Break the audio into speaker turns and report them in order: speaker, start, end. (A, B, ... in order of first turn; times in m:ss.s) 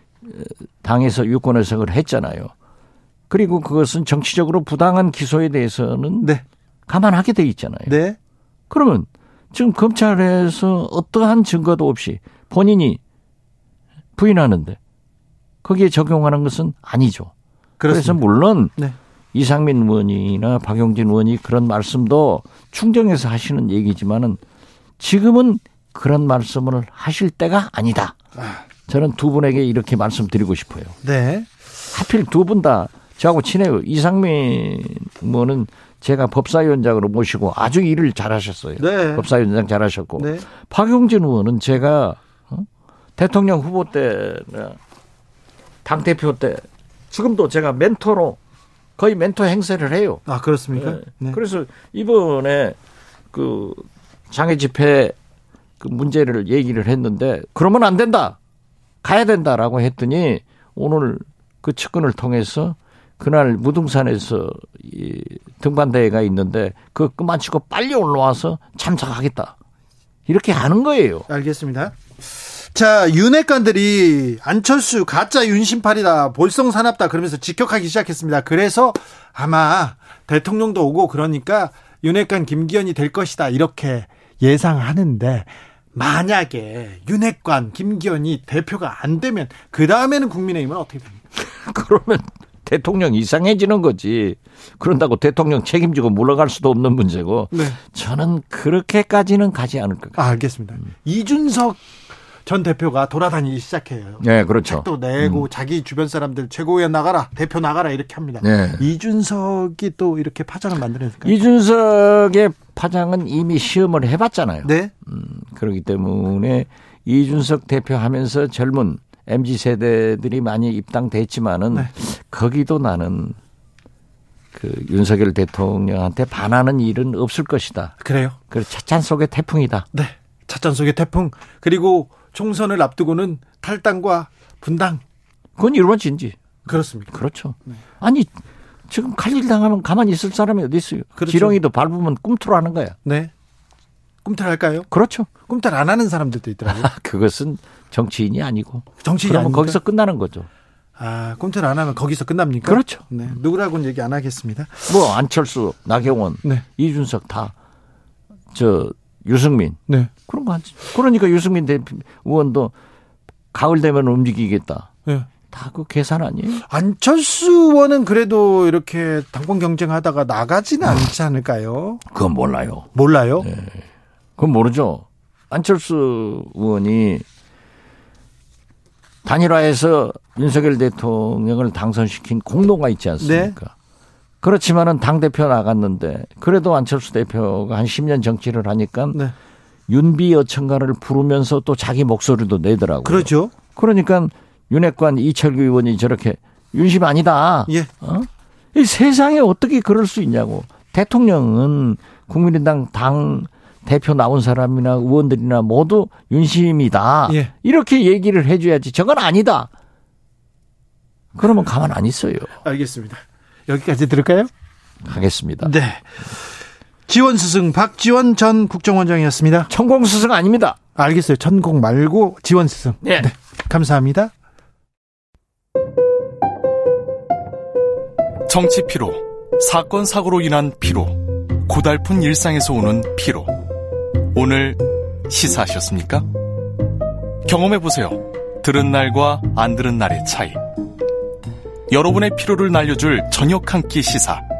0:00.2-0:02.5 A
0:03.3-0:06.3 A
0:06.9-0:08.0 A
0:07.9-0:08.2 B
0:08.7-0:13.0 A
0:14.2-0:14.8 A
0:15.6-0:17.3 A
0:17.8-0:18.2 B
0:17.9-0:18.7 A
0:19.3-0:24.4 A
0:25.0-0:28.2 A
0:28.4-0:28.6 B
0:28.9-0:31.0 A
0:31.0-0:31.5 B
0:31.9-0:44.8 A
0:38.8-0:39.3 B
0:40.2-0:40.4 B
0:45.8-0:48.4 A
0:49.0-0:50.2 A
0:50.3-0:51.4 B
0:50.7-0:52.8 A
0:53.3-0:55.1 A
0:55.8-0:58.4 A
0:59.0-1:09.5 A
1:10.3-1:11.3 A
1:11.3-1:31.2 B
1:31.4-1:40.2 A
1:37.5-1:37.8 B
1:40.2-1:41.8 B
1:42.4-1:51.4 B
1:44.2-1:45.4 A
1:48.4-1:48.8 A
1:51.2-2:03.4 A
1:54.6-1:54.9 B
2:04.5-2:08.0 A
2:08.0-2:08.4 B
2:08.5-2:09.9 A
2:09.9-2:15.0 B
2:15.6-2:16.4 A
2:16.6-2:17.1 B
2:17.1-2:18.3 A
2:18.9-2:23.0 A
2:21.2-2:21.6 B
2:23.0-2:23.3 B
2:24.2-2:24.9 B
2:24.9-2:25.3 A
2:25.4-2:26.9 B
2:26.6-2:30.5 A
2:29.0-2:29.8 B
2:31.0-2:35.0 B
2:32.6-2:33.0 A
2:34.9-2:37.5 A
2:38.5-2:42.7 A
2:43.5-2:44.9 A
2:45.5-2:46.6 A
2:46.7-2:52.0 B
2:52.1-2:52.9 A
2:52.9-2:53.5 B
2:53.4-2:53.8 A
2:54.4-2:57.2 A
2:59.2-3:03.7 A
3:03.2-3:03.5 B
3:04.4-3:09.2 A
3:09.9-3:29.7 A
3:13.0-3:13.5 B
3:31.4-3:32.5 A
3:32.6-3:34.5 B
3:35.0-3:35.7 A
3:35.6-3:36.2 B
3:37.1-3:39.7 B
3:39.7-3:40.8 A
3:41.0-3:44.3 B
3:43.0-3:43.3 A
3:48.4-3:53.6 C
3:54.3-3:56.2 C
3:57.4-4:00.6 C
4:01.9-4:04.4 C